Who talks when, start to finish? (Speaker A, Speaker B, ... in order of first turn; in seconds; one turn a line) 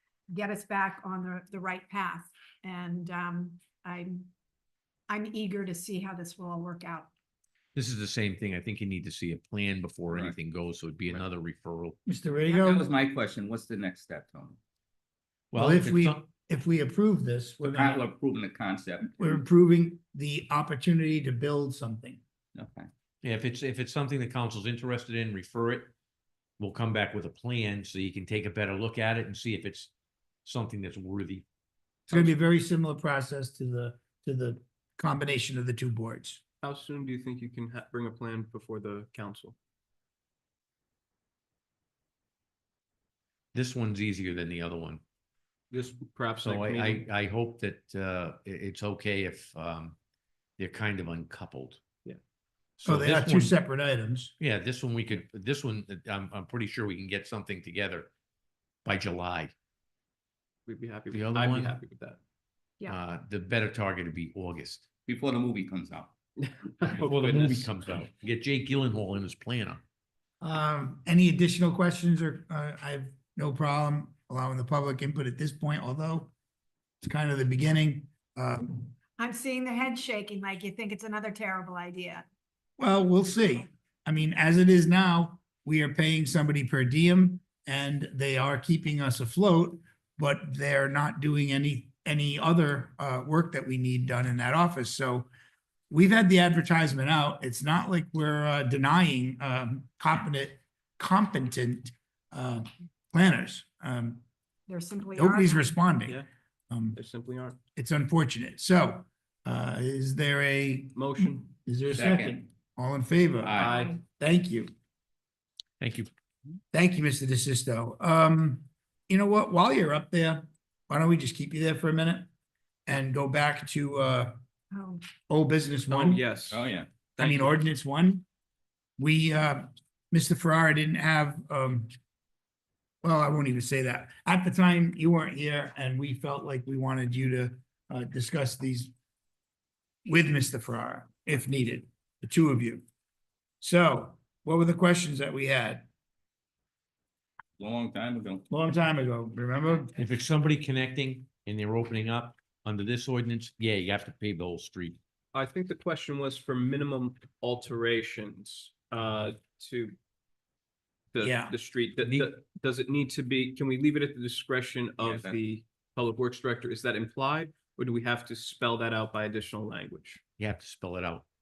Speaker A: 0.3-4.3
Speaker A: 5.1-7.1
Speaker B: 7.8-12.0
Speaker C: 10.1-10.4
Speaker D: 12.1-12.9
Speaker C: 12.5-14.6
Speaker B: 15.5-16.2
Speaker D: 15.5-18.1
Speaker C: 17.6-19.3
Speaker D: 19.1-22.2
Speaker C: 22.6-22.9
Speaker B: 23.2-25.9
Speaker B: 26.6-29.9
Speaker B: 30.4-31.4
Speaker D: 32.1-36.4
Speaker E: 36.6-39.6
Speaker B: 43.5-45.0
Speaker E: 45.7-47.1
Speaker B: 46.4-50.0
Speaker B: 50.6-51.8
Speaker B: 52.8-53.5
Speaker D: 52.9-54.3
Speaker B: 54.4-58.1
Speaker B: 58.9-59.5
Speaker E: 60.7-62.2
Speaker B: 61.1-61.8
Speaker B: 62.9-64.8
Speaker C: 65.1-66.1
Speaker E: 66.4-67.7
Speaker B: 67.0-69.8
Speaker D: 70.4-76.3
Speaker D: 77.0-78.9
Speaker A: 79.2-82.3
Speaker D: 82.8-95.3
Speaker D: 95.9-104.2
Speaker A: 104.7-105.8
Speaker D: 105.2-107.0
Speaker E: 106.9-107.6
Speaker D: 107.8-114.7
Speaker E: 111.0-111.5
Speaker C: 111.9-112.4
Speaker C: 113.4-114.0
Speaker E: 113.6-114.0
Speaker B: 115.8-116.1
Speaker D: 116.7-122.3
Speaker D: 122.9-124.3
Speaker A: 124.7-125.0
Speaker D: 125.3-126.2
Speaker E: 125.9-127.6
Speaker C: 126.5-127.0
Speaker D: 127.2-128.2
Speaker D: 129.0-131.9
Speaker D: 133.0-138.9
Speaker D: 140.1-142.8
Speaker D: 143.6-145.9
Speaker C: 147.6-148.4
Speaker D: 148.5-149.9
Speaker B: 150.0-155.0
Speaker E: 155.3-160.0
Speaker E: 161.1-170.2
Speaker D: 161.2-161.6
Speaker C: 165.0-165.4
Speaker B: 170.4-171.2